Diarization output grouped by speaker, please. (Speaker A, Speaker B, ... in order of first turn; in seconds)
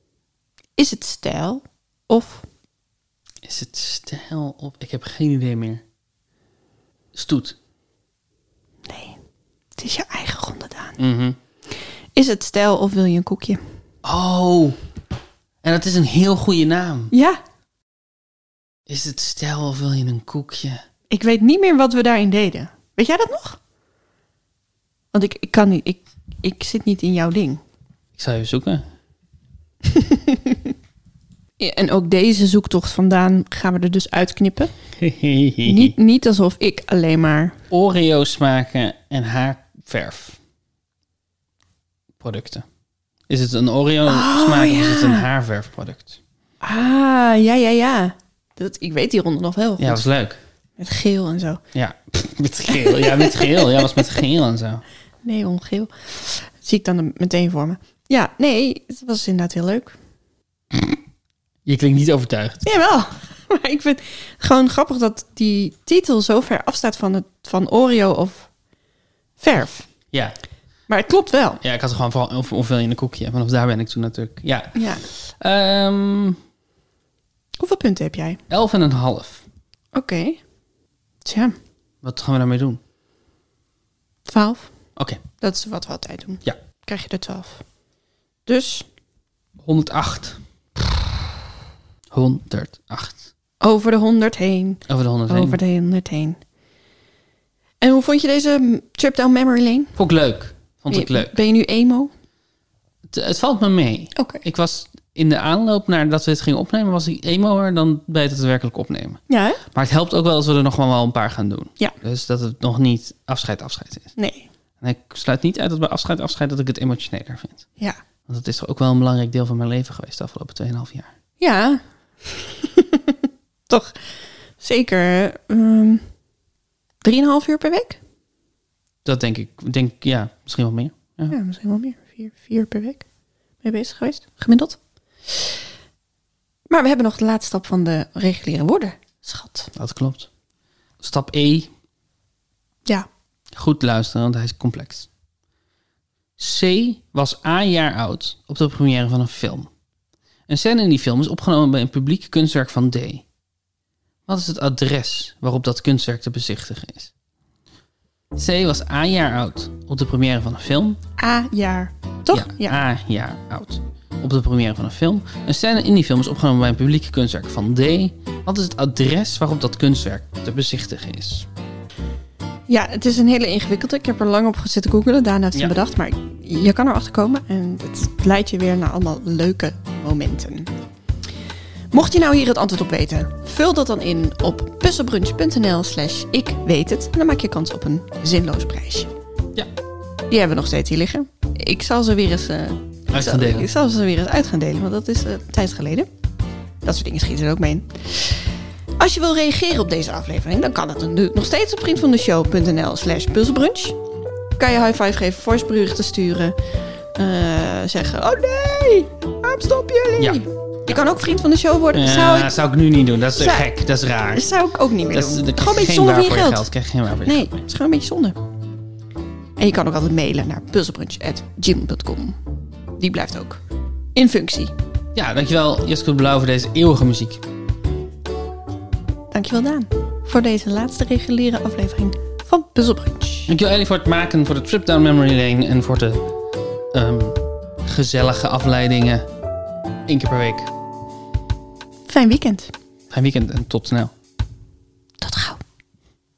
Speaker A: 0.8-2.5, 8.8-9.2, 9.8-11.0, 12.2-13.6, 17.1-17.4, 21.1-23.6, 25.1-27.6, 29.9-30.7, 31.6-34.7, 35.6-37.6, 44.1-45.3, 46.6-50.1, 50.8-51.6, 52.7-54.2, 55.2-60.0, 62.6-68.5, 69.4-69.9, 70.9-71.6, 74.8-75.0, 77.6-78.4, 79.9-80.4, 81.2-81.6, 84.3-84.7, 85.4-87.6, 88.5-88.9, 93.6-96.4, 97.8-100.0, 100.9-102.1, 104.2-104.4, 109.3-109.6, 114.2-114.5, 121.4-124.1, 124.6-126.0, 127.0-128.0, 131.3-133.0, 133.6-135.6, 136.7-139.7, 161.2-162.8, 172.7-180.7, 181.9-189.1, 190.3-196.1, 196.8-204.0, 204.6-206.6, 207.1-212.6, 213.4-213.7, 214.3-216.7, 217.2-218.4, 219.6-222.4, 223.0-223.6, 224.2-224.8, 229.3-233.5, 242.1-242.7, 245.2-245.6
Speaker B: 3.4-5.8, 7.1-7.6, 11.0-11.4, 14.0-14.8, 15.6-17.1, 18.9-20.8, 28.2-28.9, 35.0-35.9, 37.7-40.4, 42.2-42.6, 43.3-46.2, 49.8-50.4, 51.7-54.8, 61.6-62.7, 71.6-76.4, 78.5-79.5, 82.0-82.8, 85.0-85.2, 89.6-90.4, 92.1-93.3, 94.9-95.6, 100.0-101.4, 103.1-109.2, 109.7-114.1, 114.8-117.7, 118.3-121.1, 129.1-131.4, 139.8-140.3, 141.0-141.7, 143.6-145.1, 146.4-149.7, 150.5-153.2, 154.3-157.1, 158.3-161.0, 162.3-171.5, 193.1-193.7, 210.2-210.9, 211.9-214.5, 215.1-217.6, 225.2-227.4, 233.5-236.2, 236.9-239.3, 240.1-240.7, 243.1-244.1